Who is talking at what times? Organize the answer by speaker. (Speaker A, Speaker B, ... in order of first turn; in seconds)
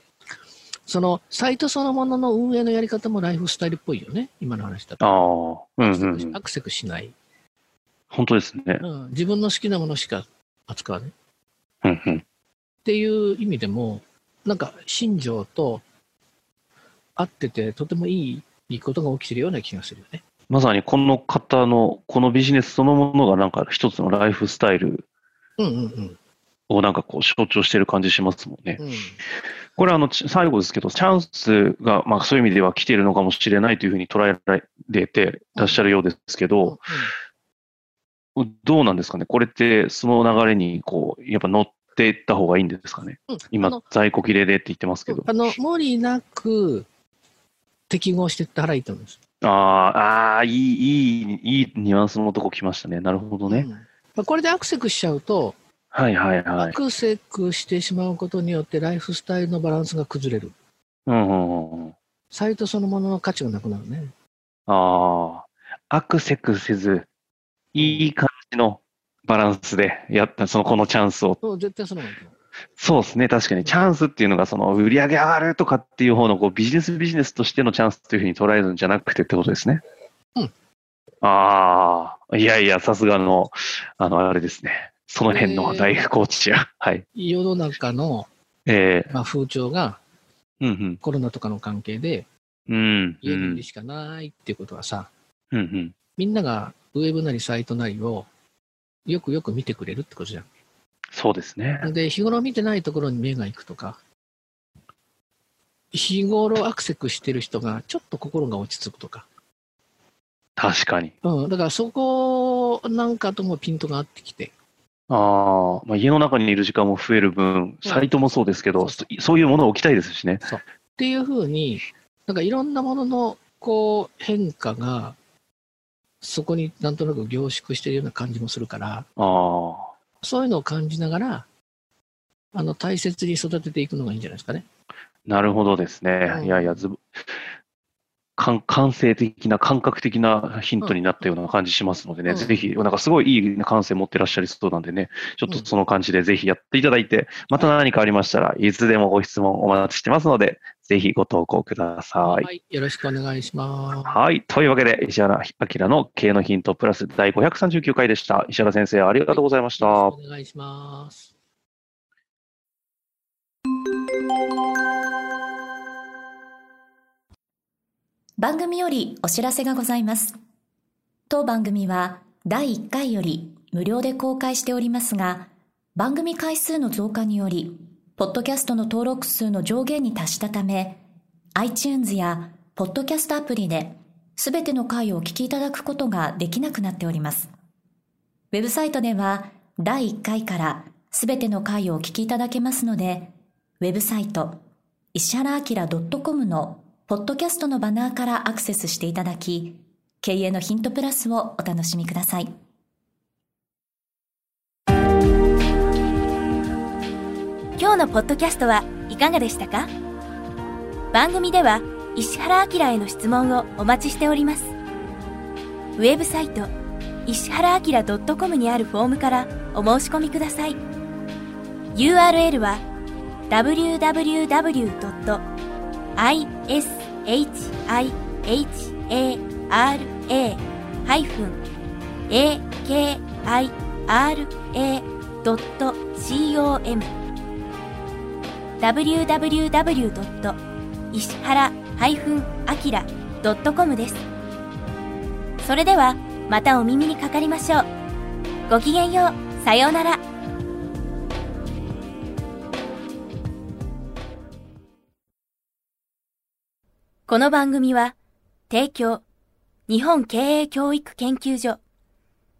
Speaker A: 0.8-5.0, 5.8-7.1, 8.8-11.1, 12.8-15.8, 17.1-20.2, 25.6-26.2, 28.8-29.2, 35.6-35.8, 36.6-37.1, 43.3-43.9, 45.1-46.9, 47.9-49.2, 53.5-55.6, 56.6-60.5, 62.3-64.1, 67.8-68.1, 71.4-72.3, 73.6-73.9, 85.2-86.0, 87.1-88.3, 89.1-90.0, 91.0-92.3, 93.2-95.1, 96.2-98.3, 99.0-100.5, 101.8-104.0, 105.9-109.3, 111.2-114.5, 117.8-118.1, 118.8-119.0, 120.4-125.2, 126.2-129.1, 130.2-131.5, 132.5-134.6, 136.2-136.8, 142.3-142.5, 152.2-154.2, 159.3-161.3
Speaker B: 5.0-6.4, 8.1-8.8, 11.8-12.2, 20.5-25.1, 26.7-28.8, 29.8-36.8, 38.4-45.5, 49.4-53.7, 55.9-56.8, 61.1-61.9, 64.7-67.1, 67.7-71.4, 72.8-79.8, 81.2-87.0, 88.7-89.1, 90.6-91.0, 92.7-93.6, 95.5-96.0, 101.1-101.9, 110.6-111.1, 115.1-120.4, 129.2-129.9, 135.2-137.0, 138.4-152.5, 154.0-160.1
Speaker C: 168.4-170.4, 171.3-181.0, 181.6-187.5, 188.5-194.6, 195.1-202.5
Speaker D: 207.8-209.9, 211.1-214.7, 215.9-216.7, 217.2-220.8, 221.9-222.8, 223.5-225.4, 226.2-231.6, 232.3-237.2, 238.8-244.2, 245.6-247.9, 248.7-250.2, 257.3-258.1, 258.7-259.2, 259.9-261.8